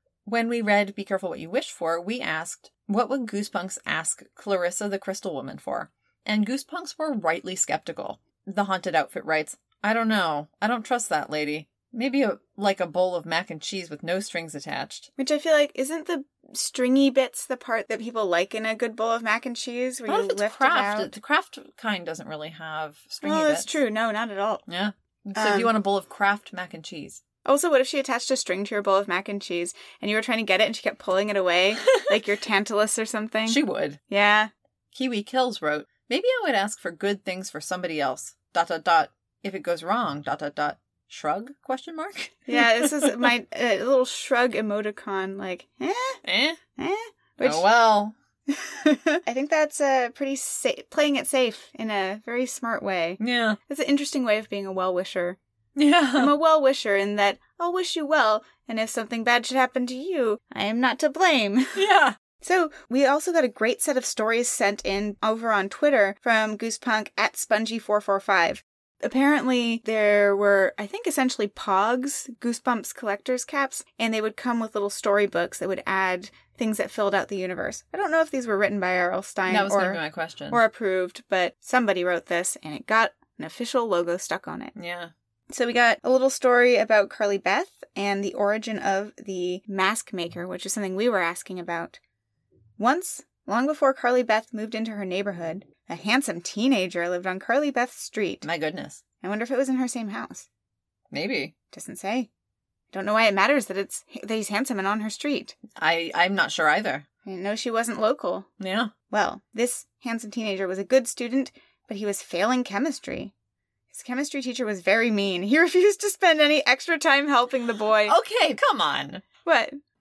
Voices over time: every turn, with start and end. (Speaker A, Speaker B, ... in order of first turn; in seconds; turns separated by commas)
Speaker A: 0.2-15.1, Speaker B: 15.2-21.1, Speaker A: 20.1-23.7, Speaker B: 23.2-24.6, Speaker A: 24.7-27.2, Speaker B: 25.3-25.7, Speaker B: 27.4-34.5, Speaker A: 33.5-34.0, Speaker A: 34.9-43.3, Speaker B: 42.5-46.2, Speaker A: 46.2-46.6, Speaker B: 46.8-47.6, Speaker A: 47.4-48.1, Speaker B: 48.5-55.4, Speaker A: 53.2-53.6, Speaker A: 55.8-56.3, Speaker B: 56.1-61.8, Speaker A: 61.7-62.1, Speaker B: 62.4-84.7, Speaker A: 79.5-80.6, Speaker A: 84.8-85.1, Speaker B: 85.5-92.0, Speaker B: 92.8-98.5, Speaker A: 98.4-99.0, Speaker B: 99.2-100.5, Speaker A: 101.1-101.5, Speaker B: 101.7-102.3, Speaker B: 102.9-105.6, Speaker A: 105.8-107.0, Speaker B: 107.2-108.5, Speaker A: 108.6-108.9, Speaker B: 109.1-113.3, Speaker B: 113.9-118.2, Speaker A: 118.0-119.2, Speaker B: 119.4-119.7